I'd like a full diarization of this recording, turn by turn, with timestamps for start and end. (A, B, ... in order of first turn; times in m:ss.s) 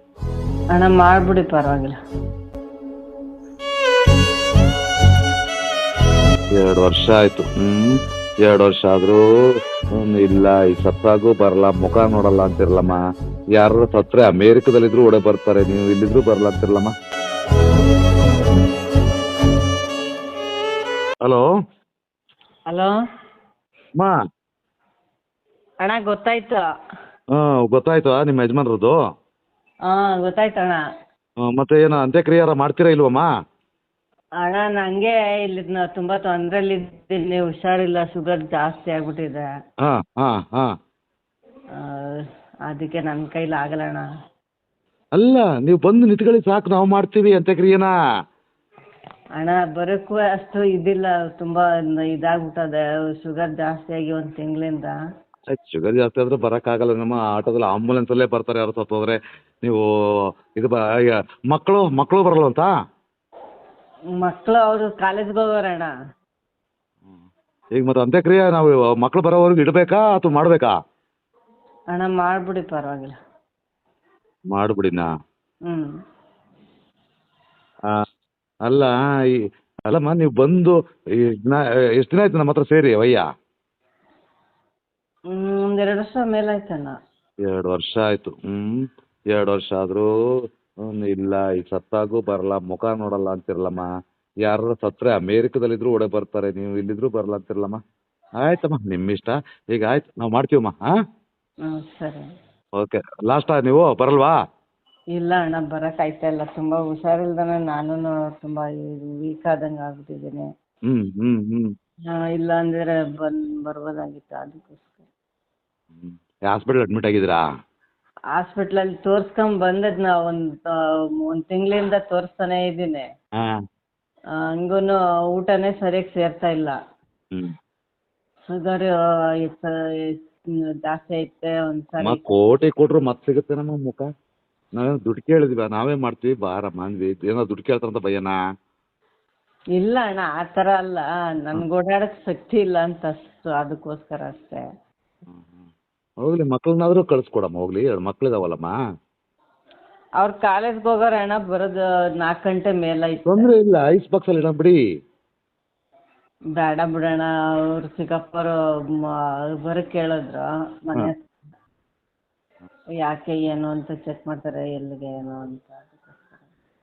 0:00.7-0:01.9 A
0:06.6-0:09.2 B
0:10.0-0:13.0 B
0:13.6-0:16.9 B
0:25.8-0:26.7 A
0:27.3-0:29.0 B
0:29.9-0:30.8 A
0:31.4-0:33.3 B
0:34.4-0:39.5 A
0:39.8-0:40.7 B
0:41.8-0:44.0 A
0:45.2-0:47.9 B
0:49.4-0:55.0 A
0:55.5-0:59.8 B
1:00.5-1:02.7 B
1:04.2-1:05.9 A
1:07.8-1:10.7 B
1:11.9-1:13.2 A
1:14.5-1:15.1 B
1:18.7-1:18.9 B
1:19.9-1:23.2 B
1:25.3-1:26.9 A
1:27.5-1:30.1 B
1:30.8-1:33.9 B
1:34.4-1:37.8 B
1:38.4-1:40.8 B
1:41.7-1:42.3 A
1:42.8-1:44.3 B
1:45.1-1:50.5 A
1:50.9-1:51.7 B
1:52.1-1:55.1 A
1:55.9-1:57.4 B
1:58.4-2:03.1 A
2:04.6-2:06.8 A
2:08.5-2:10.3 A
2:10.8-2:12.3 A
2:12.0-2:14.1 B
2:14.8-2:18.4 B
2:19.8-2:24.6 A
2:25.3-2:25.6 B
2:26.2-2:28.7 B
2:30.2-2:33.5 A
2:33.3-2:34.8 B
2:36.6-2:41.2 A
2:43.0-2:46.5 A